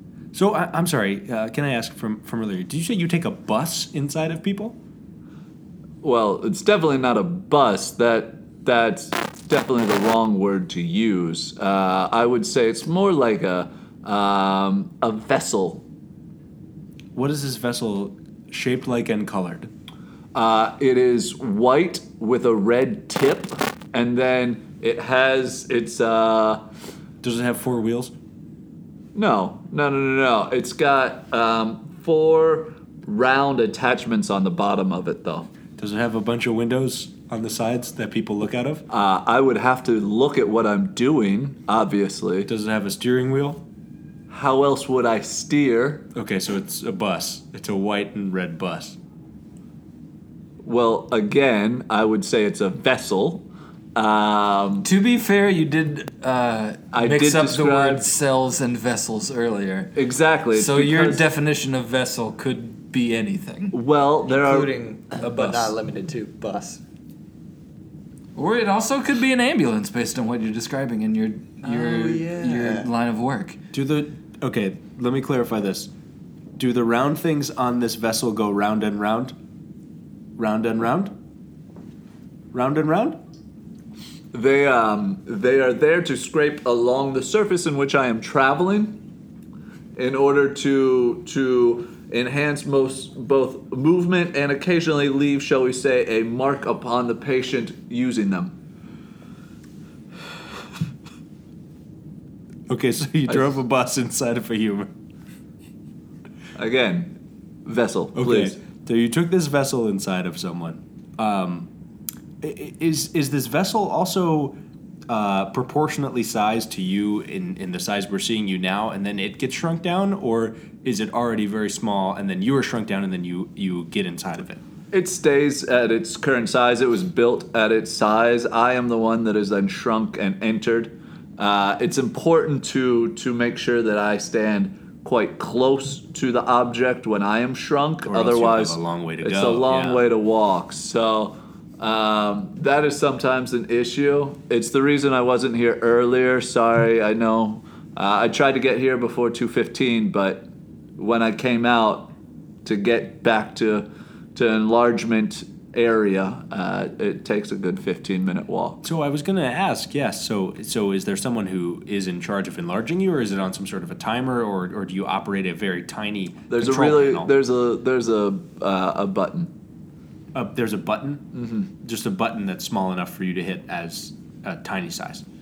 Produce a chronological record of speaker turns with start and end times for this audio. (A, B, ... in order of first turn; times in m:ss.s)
0:00.3-0:04.8 A
0:06.0-0:15.8 B
0:17.1-0:19.7 A
0:20.3-0:26.6 B
0:27.2-0:28.1 A
0:29.1-0:35.5 B
0:35.8-0:38.8 A
0:38.9-0:42.5 B
0:42.4-0:43.6 A
0:44.3-0:46.1 B
0:46.1-0:49.0 A
0:50.6-0:54.9 B
0:54.8-0:59.9 C
0:56.9-0:58.0 B
0:59.9-1:01.2 B
1:00.5-1:03.8 C
1:03.7-1:05.7 B
1:04.3-1:06.8 D
1:08.3-1:13.6 C
1:11.6-1:12.9 D
1:13.7-1:15.9 A
1:16.6-1:19.3 A
1:20.4-1:21.1 A
1:22.5-1:23.2 A
1:24.3-1:29.0 B
1:30.0-1:38.5 B
1:42.7-1:44.9 A
1:46.6-1:48.6 B
1:48.1-1:51.7 A
1:52.4-1:54.6 A
1:55.1-2:04.6 A
2:04.9-2:32.1 B
2:18.0-2:20.0 A
2:32.6-2:38.8 B
2:38.8-2:47.3 A
2:46.5-2:49.5 B
2:50.3-2:51.2 A
2:51.3-2:51.7 B
2:51.8-2:55.2 A